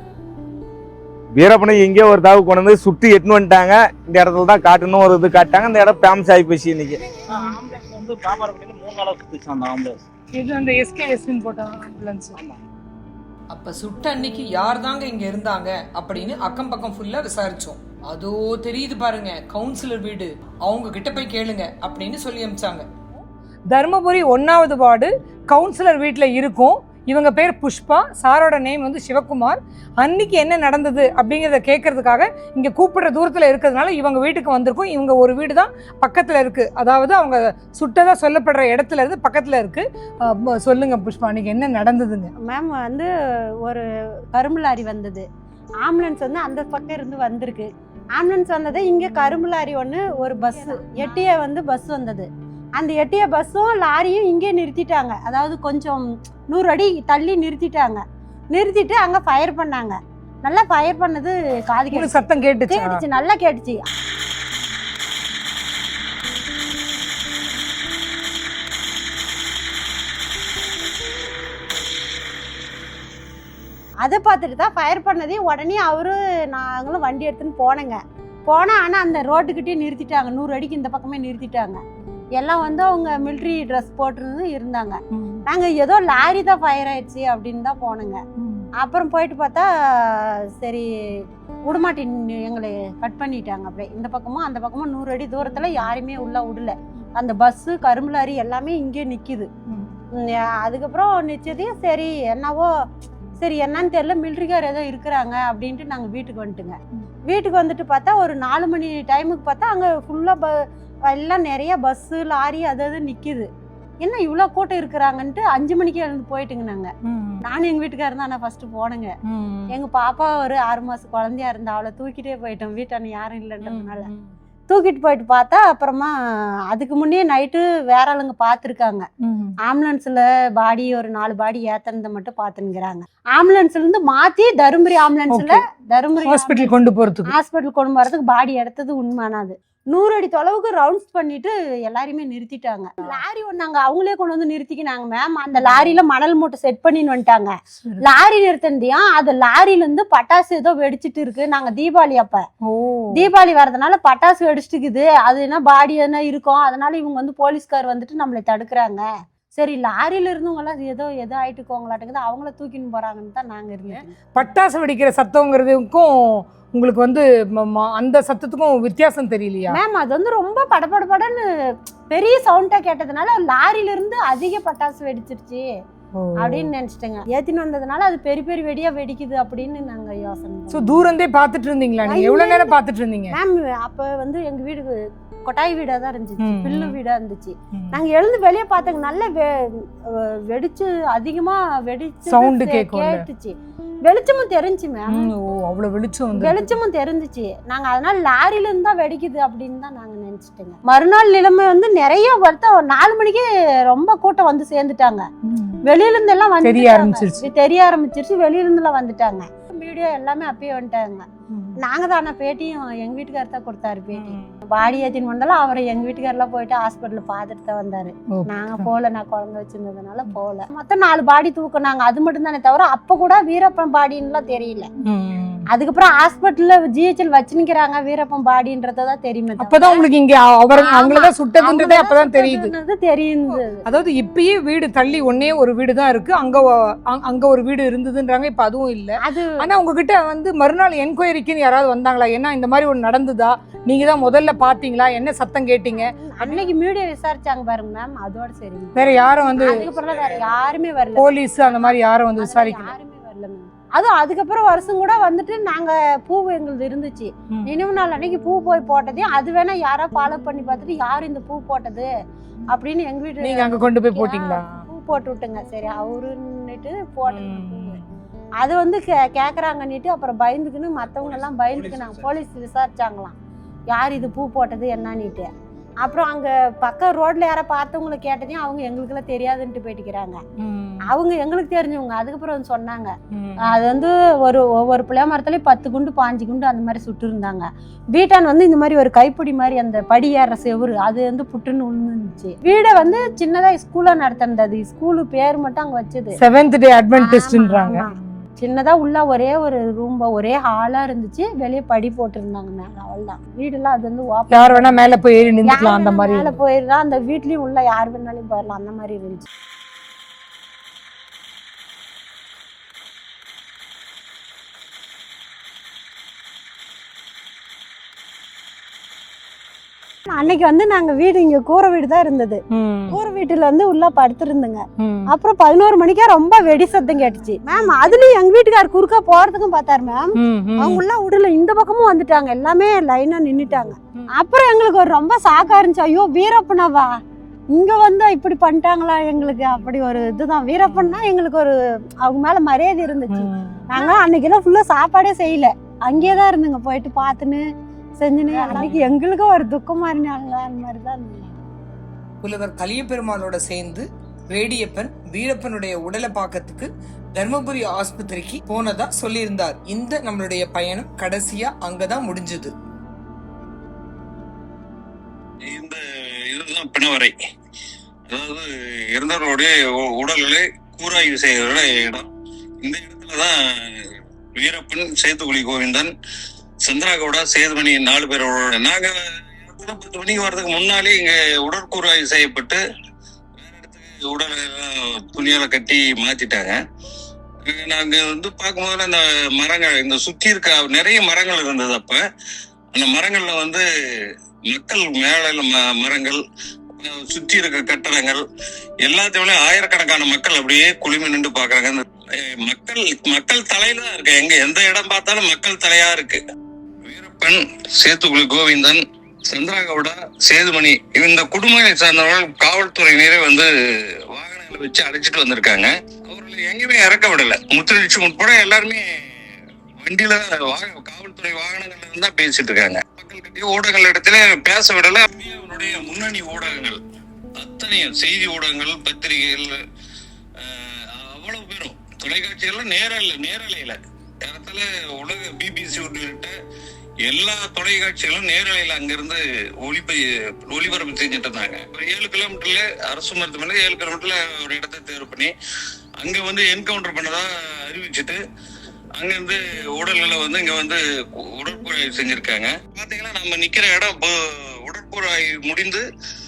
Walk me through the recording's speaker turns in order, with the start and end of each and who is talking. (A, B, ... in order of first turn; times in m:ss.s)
0:01.4-0:07.0 A
0:07.3-0:10.0 B
0:10.3-0:12.4 C
0:13.5-0:22.9 D
0:23.7-0:42.3 C
0:42.4-0:43.1 E
0:43.6-0:45.2 E
0:45.8-1:03.8 E
0:50.5-0:51.2 C
1:01.9-1:03.0 C
1:14.0-1:21.8 E
1:22.4-1:28.2 E
1:28.4-1:28.7 C
1:28.8-1:30.8 E
1:31.7-1:39.5 E
1:39.7-1:40.0 C
1:40.2-1:42.7 E
1:43.4-1:46.8 E
1:47.3-1:53.5 E
1:54.0-1:56.9 E
1:57.1-1:57.4 C
1:57.4-1:59.1 E
1:59.3-1:59.8 C
1:59.7-2:04.1 E
2:03.6-2:04.3 C
2:04.7-2:06.1 E
2:06.7-2:09.0 E
2:09.2-2:09.5 C
2:09.6-2:32.4 E
2:15.3-2:15.6 C
2:16.2-2:17.3 C
2:25.7-2:25.9 C
2:32.7-2:33.3 C
2:33.1-2:39.0 E
2:39.6-2:44.3 E
2:44.3-2:49.8 C
2:49.7-2:51.4 E
2:52.1-2:55.6 E
2:56.2-2:56.7 C
2:56.4-3:01.1 E
3:00.7-3:03.4 C
3:02.0-3:02.8 E
3:03.3-3:13.5 E
3:06.4-3:07.0 C
3:12.3-3:13.2 C
3:14.0-3:15.3 E
3:15.1-3:16.6 C
3:16.3-3:25.2 E
3:25.5-3:25.8 C
3:25.9-3:31.2 E
3:26.6-3:27.5 C
3:31.5-3:31.8 C
3:31.8-3:44.9 E
3:34.1-3:34.5 C
3:38.4-3:38.9 C
3:45.0-3:45.6 C
3:45.7-3:50.1 E
3:49.6-3:52.7 C
3:50.7-3:53.8 E
3:53.9-4:06.6 C
3:59.2-3:59.6 E
4:05.9-4:22.1 E
4:09.0-4:09.9 C
4:11.2-4:12.9 C
4:22.7-4:28.0 E
4:23.4-4:24.8 C
4:27.3-4:28.0 C
4:28.6-4:33.4 E
4:33.9-4:35.5 E
4:36.0-4:40.4 E
4:40.6-4:41.1 C
4:41.1-4:43.1 E
4:43.4-4:43.8 C
4:43.6-4:56.4 E
4:56.4-4:58.2 C
4:57.1-5:05.0 E
5:04.5-5:06.6 C
5:05.6-5:09.5 E
5:20.3-5:37.1 E
5:22.7-5:23.2 C
5:25.0-5:25.3 C
5:30.4-5:31.0 C
5:37.7-5:41.7 E
5:40.9-5:41.3 C
5:42.2-5:47.6 E
5:43.3-5:44.2 C
5:48.2-5:51.5 E
5:48.5-5:49.0 C
5:52.4-6:02.7 D
6:05.7-6:07.3 F
6:08.3-6:12.3 F
6:12.8-6:13.5 F
6:14.6-6:16.1 F
6:16.8-6:22.8 F
6:23.6-6:26.8 F
6:27.7-6:32.2 F
6:33.0-6:33.8 F
6:34.7-6:36.4 F
6:37.0-6:38.4 F
6:39.0-6:46.4 F
6:47.1-6:53.7 F
6:54.3-6:59.0 F
7:00.0-7:07.0 F
7:07.6-7:09.7 F
7:10.6-7:16.5 F
7:17.2-7:20.2 F
7:20.7-7:25.5 F
7:26.2-7:28.4 F
7:29.2-7:31.0 F
7:31.5-7:36.0 F